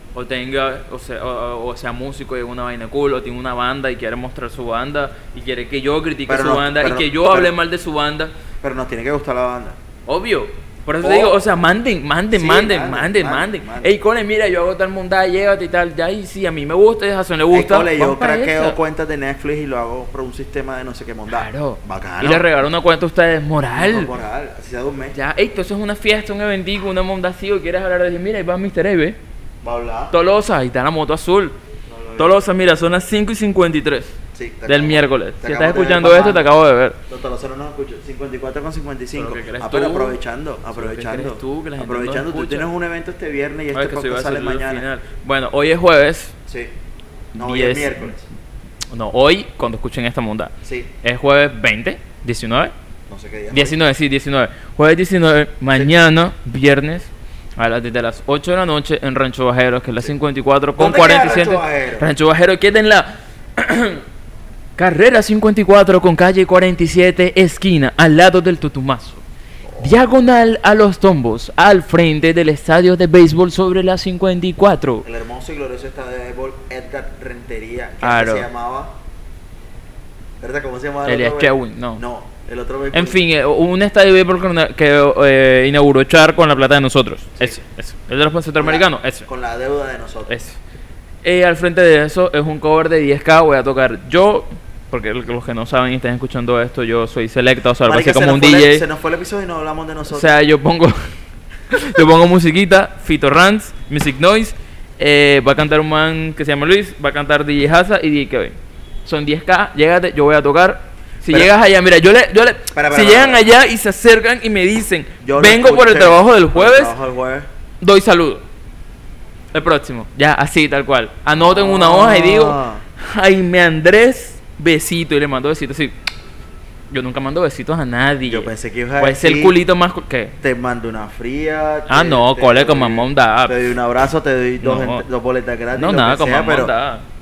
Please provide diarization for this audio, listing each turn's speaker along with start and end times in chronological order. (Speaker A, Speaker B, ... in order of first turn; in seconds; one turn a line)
Speaker A: 0.1-8.3
Speaker B: 6.3-7.5
Speaker B: 8.6-9.8
Speaker A: 10.1-18.8
Speaker B: 11.0-11.4
Speaker B: 12.3-13.9
Speaker B: 17.5-22.5
Speaker A: 21.3-24.1
Speaker B: 23.7-25.1
Speaker A: 25.1-29.2
Speaker B: 29.6-30.1
Speaker A: 30.1-31.6
Speaker B: 31.9-32.4
Speaker A: 32.2-37.0
Speaker B: 34.3-36.4
Speaker B: 37.1-44.8
Speaker A: 39.1-40.2
Speaker A: 40.7-42.7
Speaker A: 43.7-46.3
Speaker B: 46.5-46.7
Speaker A: 47.3-48.1
Speaker B: 47.3-48.2
Speaker A: 48.9-52.7
Speaker B: 50.6-50.9
Speaker B: 53.1-53.8
Speaker A: 53.5-64.0
Speaker B: 60.8-62.1
Speaker A: 64.8-69.2
Speaker B: 69.6-69.9
Speaker A: 69.8-75.0
Speaker B: 75.0-79.0
Speaker A: 78.0-78.5
Speaker B: 80.4-83.2
Speaker A: 81.0-82.0
Speaker A: 82.9-89.3
Speaker B: 88.6-90.3
Speaker A: 90.3-90.6
Speaker A: 91.2-98.8
Speaker B: 97.8-100.3
Speaker A: 100.1-101.1
Speaker A: 101.7-117.0
Speaker B: 112.7-113.5
Speaker B: 115.2-117.5
Speaker A: 117.8-118.4
Speaker A: 119.5-125.9
Speaker B: 121.3-122.8
Speaker A: 126.9-130.4
Speaker B: 128.2-129.6
Speaker B: 130.4-136.7
Speaker A: 131.9-133.7
Speaker A: 134.6-135.1
Speaker A: 135.7-137.1